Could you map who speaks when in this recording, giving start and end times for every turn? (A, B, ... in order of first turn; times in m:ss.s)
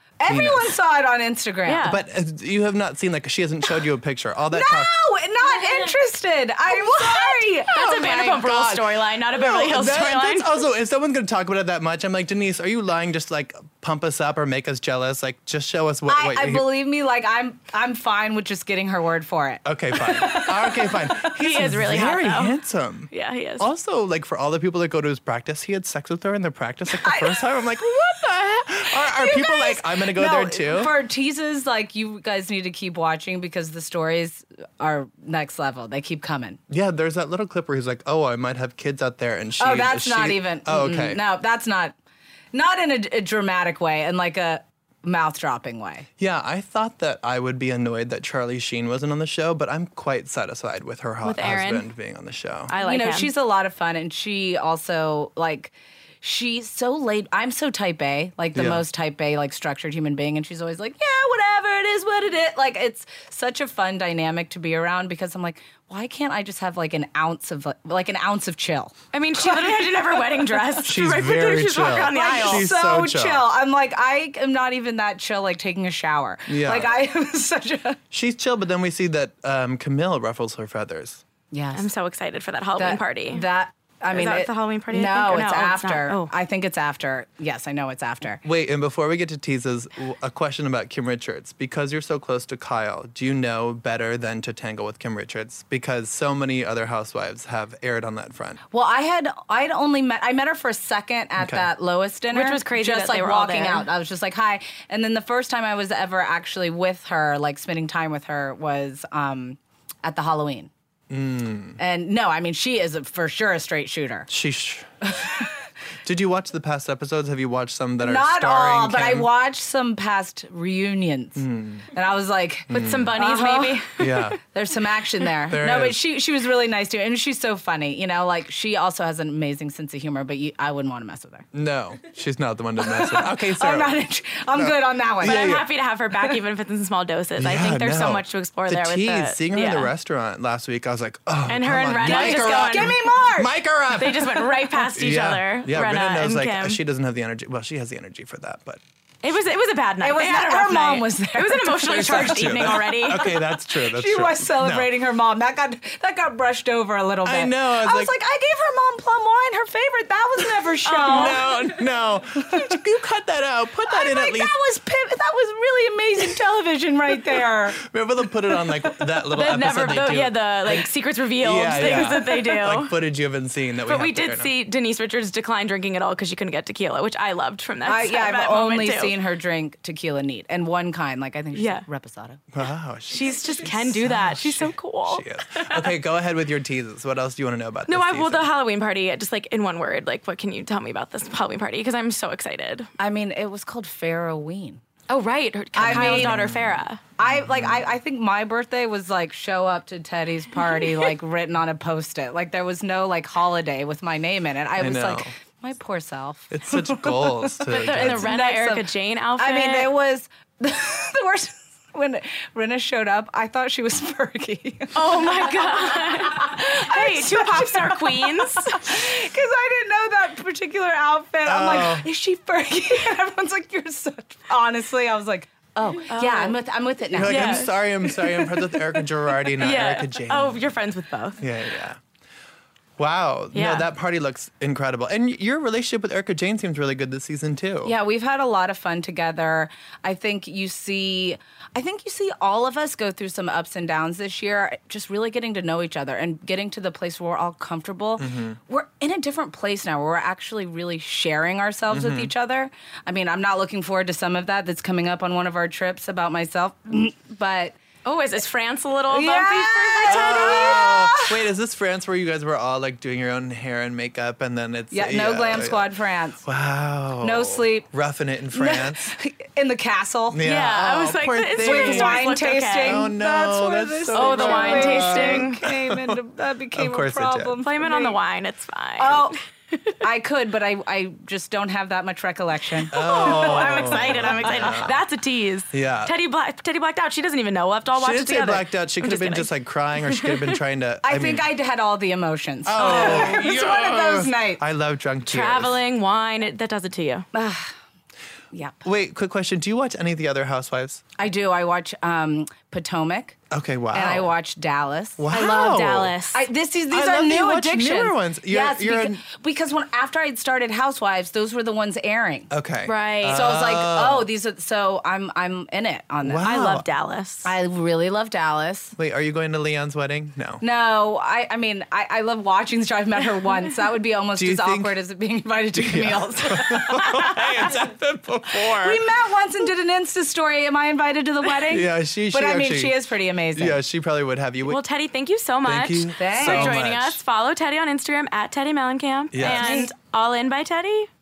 0:00.2-0:01.9 A
0:00.3-0:00.7 B
0:01.6-0:02.0 C
0:01.8-0:04.9 B
0:04.5-0:08.4 A
0:07.0-0:10.6 C
0:07.4-0:16.6 B
0:16.1-0:21.3 A
0:19.6-0:30.9 B
0:21.4-0:22.5 C
0:23.1-0:23.7 C
0:26.9-0:27.5 A
0:29.0-0:36.6 A
0:36.7-0:41.2 B
0:39.6-0:42.0 A
0:42.5-0:46.1 A
0:46.2-0:52.7 B
0:51.2-0:51.9 C
0:52.7-0:53.3 C
0:52.7-1:10.8 A
0:58.6-0:58.8 B
1:09.1-1:12.7 C
1:10.8-1:13.5 B
1:12.0-1:18.0 A
1:16.5-1:16.9 B
1:18.1-1:21.2 B
1:21.5-1:21.9 A
1:21.8-1:23.5 C
1:22.8-1:28.4 A
1:24.1-1:26.3 C
1:28.4-1:38.6 B
1:38.7-1:50.7 A
1:41.4-1:41.7 B
1:42.3-1:43.9 C
1:51.1-1:51.8 B
1:51.8-1:54.3 A
1:54.3-1:54.9 B
1:55.1-1:55.5 A
1:56.0-1:59.3 B
1:58.0-2:03.9 A
2:01.4-2:01.8 B
2:02.7-2:03.2 B
2:02.7-2:04.3 C
2:04.0-2:04.4 B
2:04.4-2:11.5 A
2:05.5-2:06.0 B
2:11.5-2:14.0 B
2:12.8-2:15.6 A
2:14.5-2:15.7 B
2:15.2-2:19.9 C
2:17.4-2:28.8 B
2:21.5-2:23.1 C
2:22.0-2:23.6 A
2:24.0-2:26.8 C
2:29.2-2:33.3 C
2:30.0-2:42.8 A
2:31.9-2:34.9 B
2:37.2-2:38.2 B
2:40.8-2:41.4 C
2:41.0-2:44.6 B
2:43.8-2:47.8 A
2:47.8-2:50.9 B
2:49.3-2:52.9 C
2:51.4-2:54.5 B
2:53.9-2:59.2 C
2:57.8-3:02.4 A
3:01.6-3:01.8 C
3:02.5-3:08.5 B
3:03.1-3:05.9 C
3:07.9-3:12.9 C
3:13.0-3:14.8 A
3:15.1-3:17.0 C
3:15.7-3:16.5 A
3:15.8-3:17.8 B
3:17.2-3:47.7 A
3:24.8-3:25.3 B
3:26.5-3:28.3 B
3:27.7-3:29.9 C
3:34.9-3:39.0 C
3:41.5-3:42.1 B
3:46.1-3:46.6 C
3:47.1-3:50.6 B
3:47.2-3:48.5 C
3:49.6-3:51.4 C
3:51.4-3:52.0 B
3:53.0-3:57.9 B
3:53.5-3:53.9 C
3:57.8-4:17.8 A
4:08.2-4:08.6 B
4:11.9-4:12.3 B
4:18.0-4:20.8 C
4:19.1-4:21.4 A
4:20.1-4:25.9 B
4:24.9-4:26.4 A
4:26.4-4:29.1 B
4:27.2-4:27.9 A
4:28.5-4:30.4 A
4:30.3-4:36.2 B
4:30.4-4:33.1 C
4:31.5-4:38.2 A
4:34.1-4:35.6 C
4:36.7-4:37.6 B
4:37.6-4:39.4 C
4:39.0-4:39.4 A
4:40.0-4:44.9 A
4:42.8-4:49.5 C
4:42.9-4:45.0 B
4:45.7-4:46.1 B
4:48.0-4:51.4 B
4:50.1-4:50.6 C
4:51.0-4:54.6 A
4:52.6-4:55.8 B
4:52.8-4:53.5 C
4:55.3-4:57.3 C
4:57.3-4:57.7 A
4:58.5-4:58.8 A
4:58.8-5:01.0 B
5:01.2-5:03.4 A
5:03.5-5:04.3 B
5:03.9-5:12.5 A
5:05.2-5:06.2 B
5:05.4-5:06.4 C
5:06.9-5:09.2 B
5:12.5-5:14.3 B
5:12.8-5:13.5 C
5:13.2-5:16.5 A
5:16.2-5:16.9 B
5:16.4-5:17.6 C
5:17.4-5:19.0 A
5:19.0-5:20.6 B
5:20.6-5:27.0 A
5:24.4-5:25.0 B
5:25.8-5:29.0 B
5:27.1-5:27.3 C
5:28.7-5:33.8 A
5:31.7-5:33.0 B
5:33.6-5:34.8 B
5:34.7-5:41.1 C
5:35.6-5:37.2 B
5:36.2-5:36.8 A
5:39.3-5:39.9 B
5:39.4-5:39.9 A